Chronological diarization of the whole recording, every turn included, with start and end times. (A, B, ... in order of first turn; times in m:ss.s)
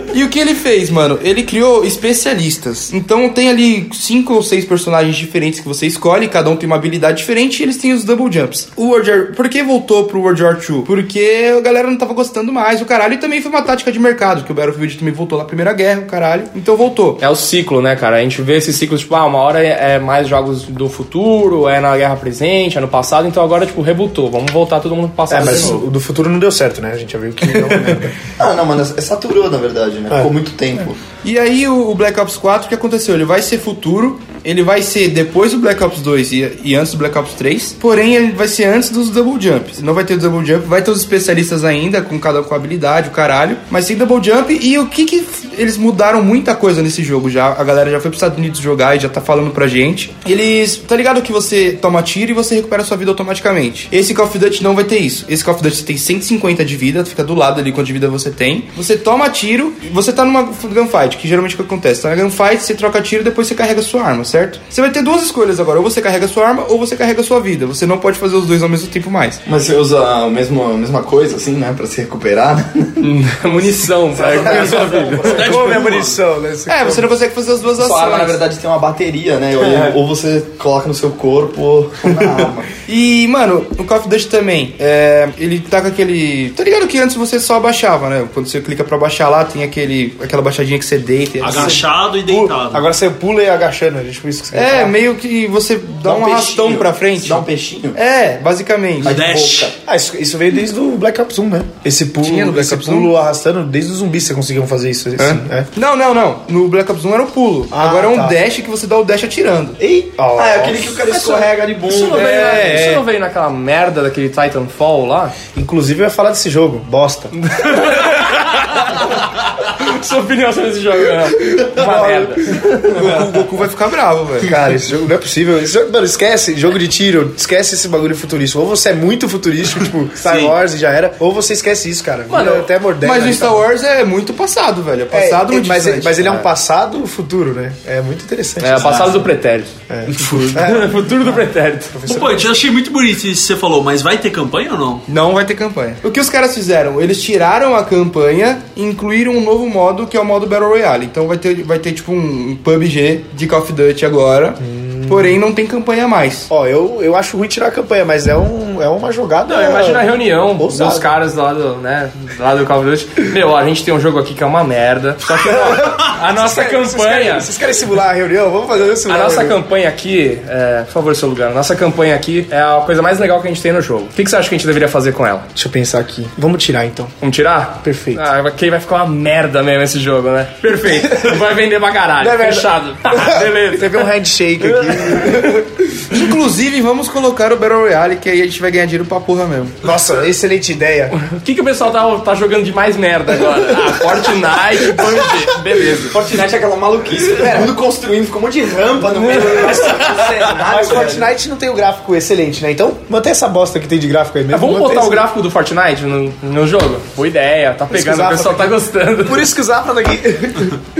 0:00.1-0:17.2 A
0:17.2-0:25.8 B
0:25.3-0:28.1 C
0:25.4-0:25.7 D
0:28.4-0:31.0 D
0:31.2-1:09.4 A
1:09.4-1:15.6 D
1:13.0-1:15.5 B
1:14.3-1:17.1 C
1:15.3-1:16.2 E
1:16.7-1:18.4 A
1:17.8-1:22.7 D
1:19.6-1:19.9 C
1:22.8-1:31.8 A
1:31.4-1:32.9 E
1:31.4-1:35.0 C
1:34.5-1:39.3 A
1:36.0-1:38.0 D
1:39.0-1:39.8 D
1:39.0-1:39.7 E
1:39.8-1:45.7 C
1:42.2-1:43.1 A
1:45.2-1:49.8 A
1:47.7-1:48.4 C
1:49.8-1:51.1 C
1:50.3-1:52.6 D
1:51.9-1:55.3 B
1:52.1-1:53.0 A
1:55.5-1:57.5 C
1:57.4-2:03.0 B
2:01.4-2:03.2 C
2:02.9-2:04.5 A
2:04.4-2:13.6 C
2:10.2-2:10.5 E
2:12.3-2:12.7 B
2:13.0-2:16.4 A
2:15.1-2:19.2 C
2:18.6-2:21.9 B
2:18.8-2:19.0 D
2:19.9-2:22.7 C
2:22.1-2:25.0 E
2:25.1-2:36.5 A
2:34.6-2:35.4 C
2:36.5-2:41.2 C
2:39.5-2:47.5 B
2:45.3-2:49.6 C
2:49.1-2:55.5 B
2:55.6-2:57.1 C
2:57.2-3:04.1 B
2:57.8-2:58.2 C
3:02.2-3:06.2 C
3:06.1-3:09.8 A
3:09.8-3:11.1 C
3:11.1-3:16.2 B
3:16.1-3:21.3 D
3:19.3-3:20.0 C
3:20.5-3:25.3 C
3:24.5-3:29.5 B
3:27.9-3:30.8 C